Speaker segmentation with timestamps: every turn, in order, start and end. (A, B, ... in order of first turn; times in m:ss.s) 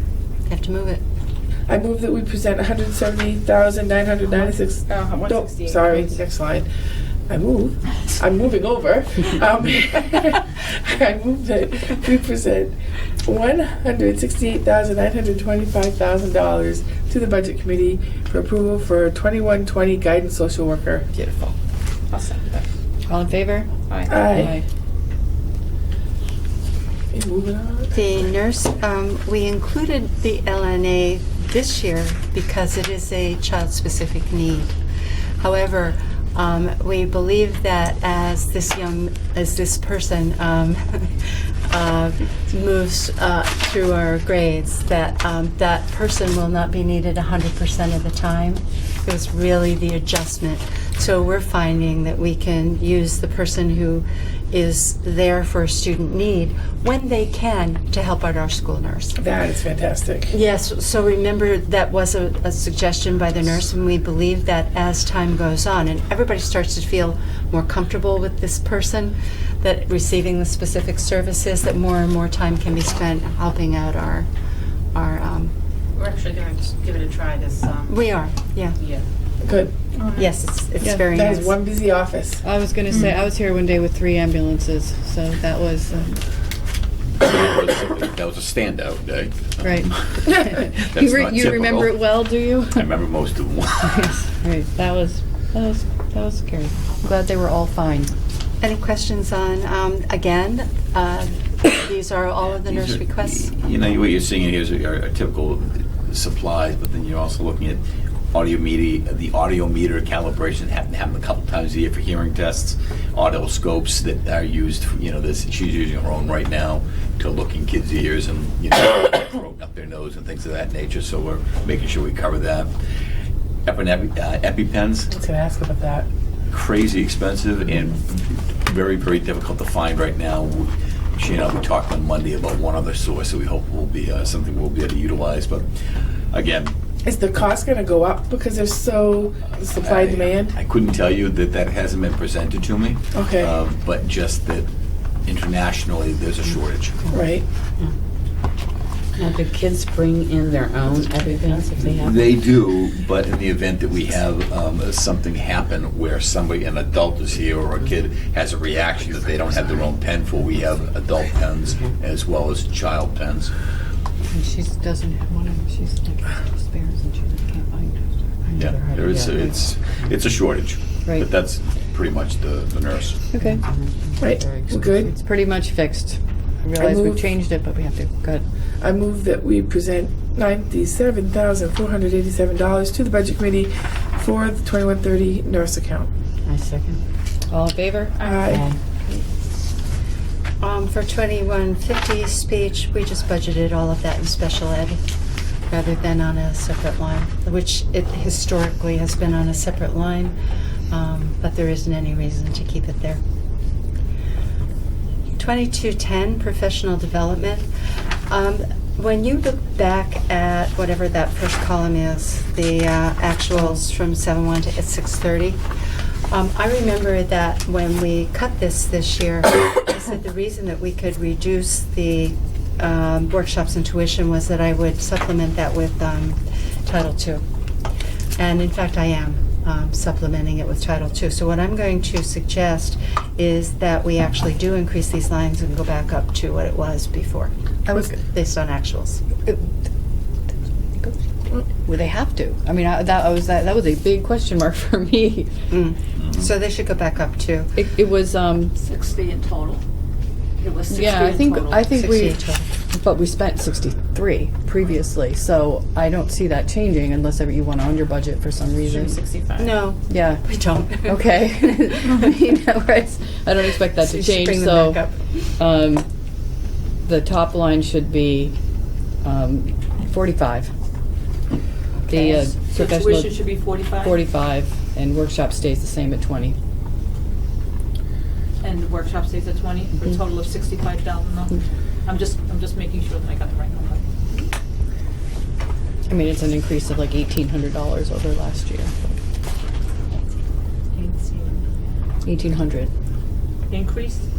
0:00.5-0:01.0 A
0:01.7-0:06.7 B
0:04.9-0:05.9 C
0:07.3-0:21.1 B
0:21.1-0:21.5 D
0:22.1-0:22.6 C
0:23.1-0:24.6 D
0:24.1-0:24.6 B
0:27.1-0:28.0 B
0:27.9-0:34.8 A
0:35.4-0:59.2 A
0:59.2-1:00.3 B
1:00.3-1:14.3 A
1:14.9-1:15.5 A
1:16.0-1:17.8 E
1:17.9-1:18.8 A
1:19.4-1:19.7 B
1:20.0-1:20.2 C
1:20.1-1:21.6 A
1:20.8-1:21.1 D
1:21.1-1:22.4 B
1:22.4-1:26.2 D
1:27.2-1:34.1 F
1:29.6-1:32.9 D
1:33.9-1:38.1 D
1:38.6-1:43.5 A
1:42.6-2:02.7 F
2:03.7-2:05.1 F
2:05.1-2:06.1 B
2:06.5-2:15.7 F
2:16.3-2:16.7 F
2:17.0-2:20.6 B
2:19.8-2:24.7 F
2:23.1-2:23.5 B
2:25.2-2:27.1 F
2:27.1-2:27.4 B
2:29.2-2:32.2 G
2:31.8-2:43.5 F
2:44.3-2:48.6 D
2:48.5-2:53.2 F
2:53.3-2:53.6 D
2:53.5-2:55.1 G
2:54.2-2:55.1 B
2:55.0-2:58.4 D
2:56.8-2:57.3 B
2:58.8-3:06.1 B
3:06.4-3:07.0 G
3:07.5-3:08.3 D
3:08.2-3:08.7 B
3:08.5-3:08.8 G
3:10.6-3:15.0 A
3:15.7-3:20.4 A
3:20.9-3:23.2 A
3:25.4-3:27.7 A
3:28.3-3:35.6 A
3:36.3-3:47.4 A
3:48.4-3:59.2 A
3:57.9-3:58.2 D
3:59.4-3:59.7 D
4:01.7-4:05.5 D
4:05.7-4:07.8 A
4:07.8-4:08.8 D
4:08.8-4:09.8 C
4:10.6-4:11.8 C
4:10.9-4:19.2 D
4:11.9-4:12.7 A
4:19.1-4:19.5 E
4:19.6-4:21.4 A
4:20.1-4:20.4 D
4:21.0-4:25.0 D
4:23.9-4:25.2 A
4:25.6-4:26.1 D
4:27.0-4:28.6 D
4:29.2-4:30.7 D
4:32.1-4:36.6 D
4:32.3-4:34.2 C
4:38.6-4:44.5 C
4:46.1-4:49.2 D
4:50.9-4:51.7 C
4:52.2-4:52.9 D
4:53.7-4:54.2 C